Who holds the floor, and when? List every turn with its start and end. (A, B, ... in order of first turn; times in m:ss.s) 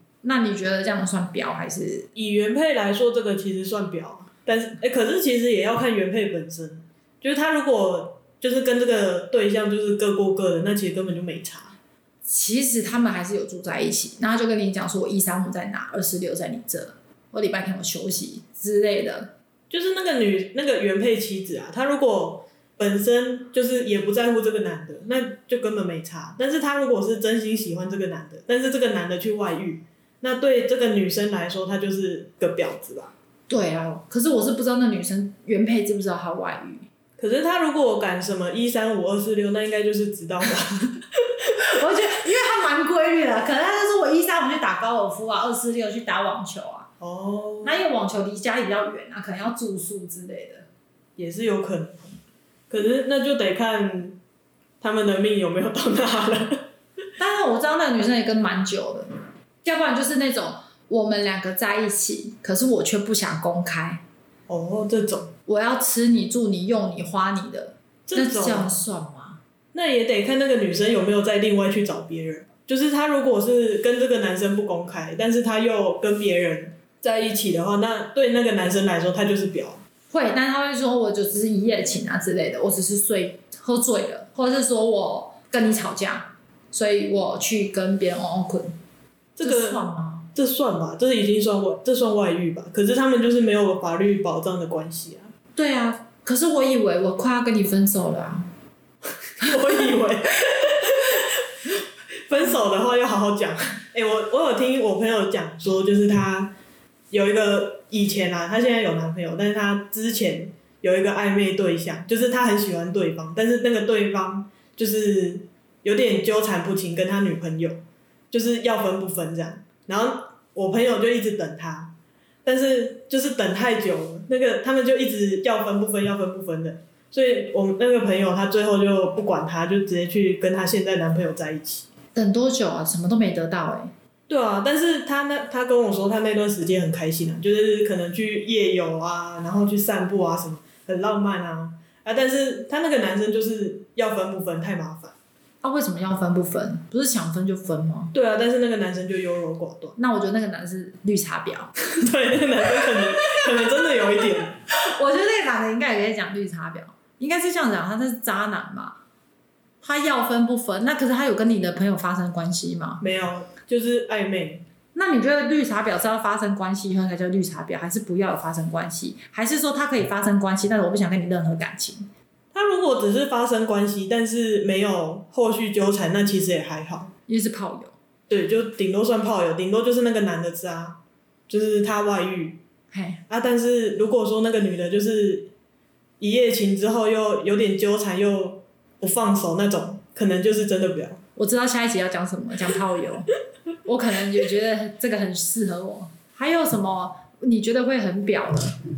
0:00.2-0:02.1 A
0:02.1-0:11.8 B
0:12.2-0:19.3 A
0:19.7-0:33.1 B
0:33.5-0:36.9 A
0:37.2-0:41.2 B
0:41.6-0:46.9 A
0:47.0-0:47.8 B
0:47.6-0:50.7 A
0:51.2-0:52.2 B
0:52.7-0:54.2 B
0:54.8-0:56.7 B
0:57.2-0:59.1 A
0:59.6-1:04.0 A
1:04.5-1:05.3 B
1:05.5-1:09.4 A
1:08.1-1:08.7 B
1:09.7-1:19.8 B
1:20.1-1:28.8 A
1:29.4-1:35.3 B
1:29.4-1:30.3 A
1:35.6-1:38.5 A
1:39.4-1:46.5 B
1:47.1-2:01.9 B
2:02.4-2:11.8 B
2:12.1-2:13.9 A
2:14.3-2:25.2 B
2:25.6-2:28.1 A
2:28.1-2:30.0 B
2:30.0-2:31.7 A
2:32.0-2:34.6 B
2:34.7-2:39.0 A
2:39.8-2:43.0 A
2:43.0-2:44.6 B
2:44.9-2:52.1 A
2:52.5-2:57.1 B
2:57.3-2:57.9 A
2:58.3-3:02.6 B
3:02.9-3:03.2 A
3:03.3-3:05.5 B
3:06.2-3:11.2 B
3:11.4-3:13.3 A
3:13.8-3:18.8 A